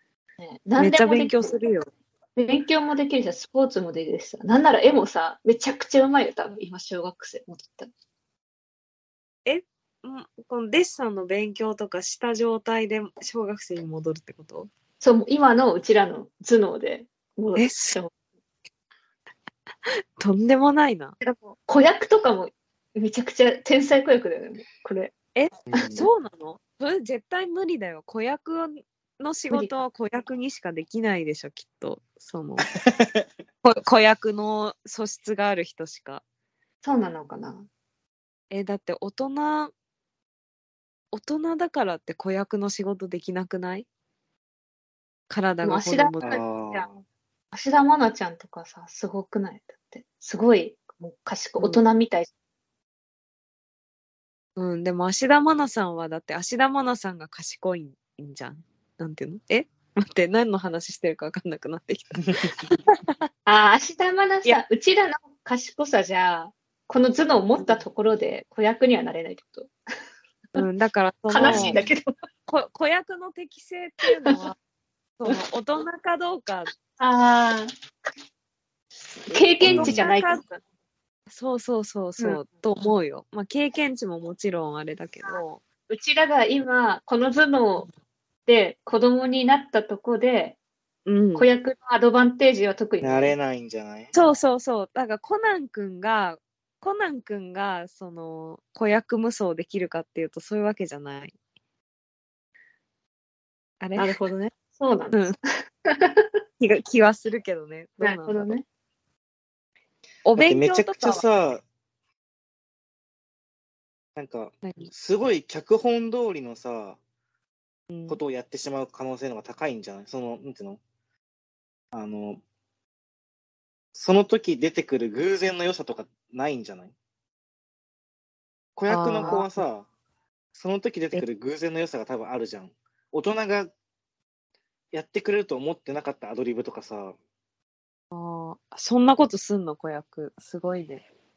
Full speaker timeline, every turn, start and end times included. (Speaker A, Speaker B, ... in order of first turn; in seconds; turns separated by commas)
Speaker A: 0.4-1.6, Speaker B: 0.8-1.9, Speaker A: 2.4-7.9, Speaker B: 9.5-14.7, Speaker A: 15.0-18.1, Speaker B: 17.6-18.0, Speaker B: 20.2-21.2, Speaker A: 21.2-25.1, Speaker B: 25.4-32.7, Speaker C: 25.7-26.1, Speaker A: 29.5-29.8, Speaker C: 32.8-33.3, Speaker B: 33.6-36.2, Speaker A: 36.8-37.7, Speaker B: 38.5-39.7, Speaker B: 41.1-43.9, Speaker B: 45.3-46.4, Speaker A: 45.6-46.9, Speaker C: 46.2-46.9, Speaker A: 47.5-52.3, Speaker B: 54.6-63.1, Speaker C: 62.2-62.5, Speaker A: 63.5-69.7, Speaker B: 67.6-67.8, Speaker B: 70.6-71.8, Speaker A: 71.3-72.1, Speaker C: 71.4-71.9, Speaker B: 72.5-74.6, Speaker B: 75.2-76.7, Speaker A: 77.0-77.7, Speaker A: 79.3-80.4, Speaker B: 79.3-80.6, Speaker C: 79.6-80.0, Speaker B: 81.3-85.6, Speaker A: 85.9-87.9, Speaker A: 88.5-90.6, Speaker B: 91.1-91.5, Speaker A: 91.3-93.4, Speaker C: 93.0-94.1, Speaker B: 94.1-101.3, Speaker B: 103.8-104.2, Speaker A: 104.0-105.3, Speaker A: 105.9-106.3, Speaker B: 106.6-108.5, Speaker A: 108.0-108.7, Speaker B: 110.2-111.2, Speaker C: 110.4-111.6, Speaker C: 114.2-117.0, Speaker B: 114.6-114.9, Speaker B: 117.9-118.2, Speaker C: 118.1-120.8, Speaker C: 121.9-122.4, Speaker C: 123.9-126.9, Speaker C: 128.8-129.9, Speaker B: 128.9-129.6, Speaker C: 130.5-133.7, Speaker C: 134.9-137.2, Speaker B: 138.1-141.0